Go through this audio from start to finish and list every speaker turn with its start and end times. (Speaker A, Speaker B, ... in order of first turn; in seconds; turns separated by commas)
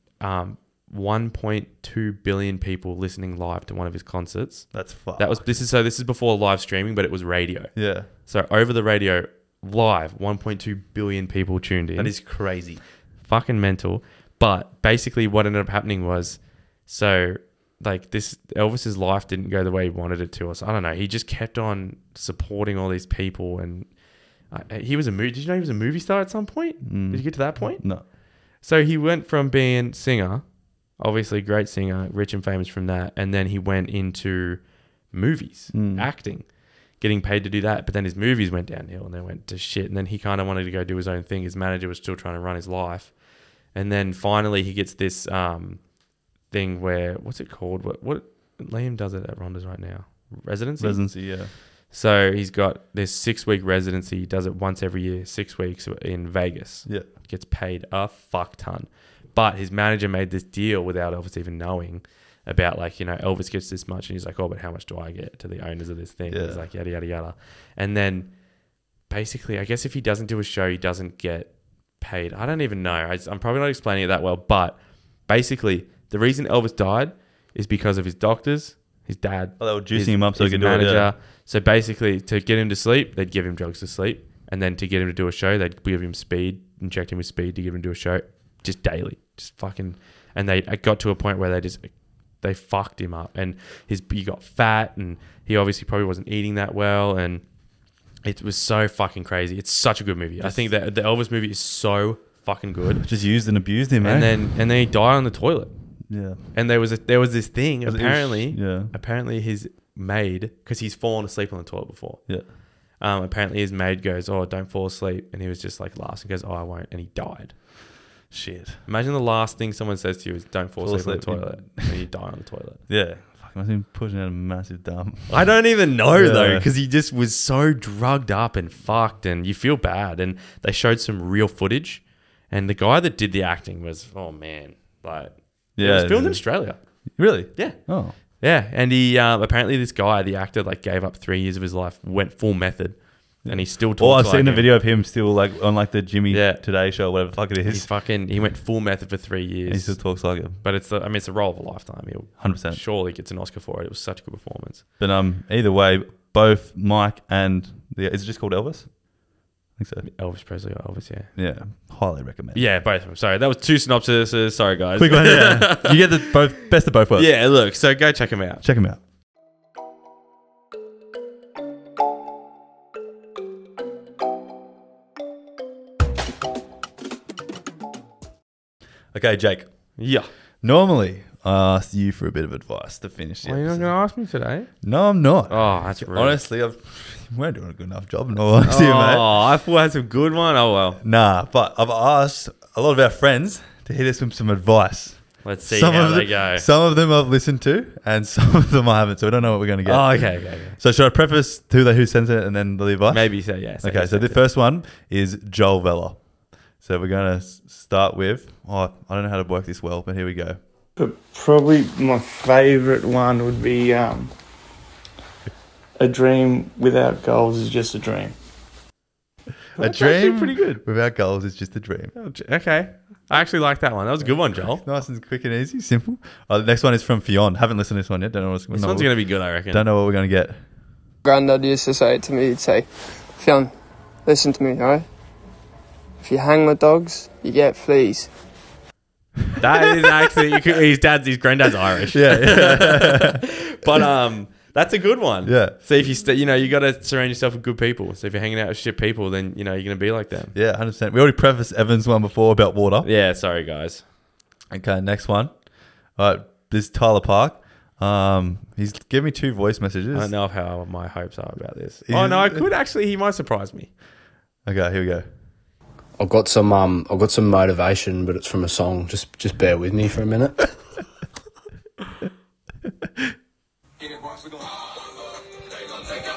Speaker A: 0.2-12.2, Speaker B: 4.7-5.5, Speaker B: 7.7-8.1, Speaker B: 11.9-12.8, Speaker A: 13.2-45.9, Speaker B: 26.8-28.1, Speaker B: 35.7-36.1, Speaker A: 46.5-68.4, Speaker B: 50.8-51.5, Speaker B: 66.3-66.6, Speaker A: 69.0-97.4, Speaker B: 79.6-81.1, Speaker A: 98.2-103.0, Speaker B: 100.4-100.7, Speaker B: 103.0-104.5, Speaker A: 104.0-105.7, Speaker B: 106.1-106.4, Speaker A: 106.5-112.2, Speaker B: 107.8-108.9, Speaker A: 113.0-117.5, Speaker B: 118.3-118.8, Speaker A: 118.8-122.8, Speaker B: 120.8-122.0, Speaker B: 122.9-125.6, Speaker A: 125.3-136.8, Speaker B: 126.1-126.7, Speaker B: 135.8-136.5, Speaker B: 137.2-138.2, Speaker A: 137.5-144.7, Speaker B: 143.4-147.9, Speaker A: 146.3-146.6, Speaker A: 147.6-154.8, Speaker B: 149.7-150.6, Speaker B: 152.4-152.8, Speaker B: 155.0-159.1, Speaker B: 159.8-160.1, Speaker A: 160.0-161.3, Speaker B: 161.3-162.7, Speaker A: 162.5-166.3, Speaker B: 165.0-167.3, Speaker A: 167.1-168.6, Speaker B: 168.6-169.0, Speaker B: 179.1-180.0, Speaker A: 180.0-180.3, Speaker B: 180.6-183.9, Speaker A: 183.4-184.7, Speaker B: 184.8-189.3, Speaker A: 185.5-186.4, Speaker A: 188.6-191.0, Speaker B: 191.0-206.3, Speaker A: 195.4-196.7, Speaker A: 199.8-200.8, Speaker A: 203.1-204.4, Speaker B: 206.8-210.6, Speaker C: 210.9-214.3, Speaker C: 216.0-218.3, Speaker B: 219.8-222.1, Speaker A: 219.8-220.8, Speaker A: 222.1-224.8, Speaker B: 224.8-230.6, Speaker A: 228.7-229.8, Speaker D: 231.2-233.7, Speaker D: 234.2-235.1, Speaker D: 236.2-238.3, Speaker A: 239.6-250.5, Speaker B: 242.1-243.4, Speaker B: 245.4-245.8, Speaker B: 250.5-253.1, Speaker A: 253.0-254.0, Speaker B: 254.7-260.3, Speaker A: 260.1-263.9, Speaker B: 262.1-262.7, Speaker B: 264.6-265.2, Speaker E: 266.2-270.7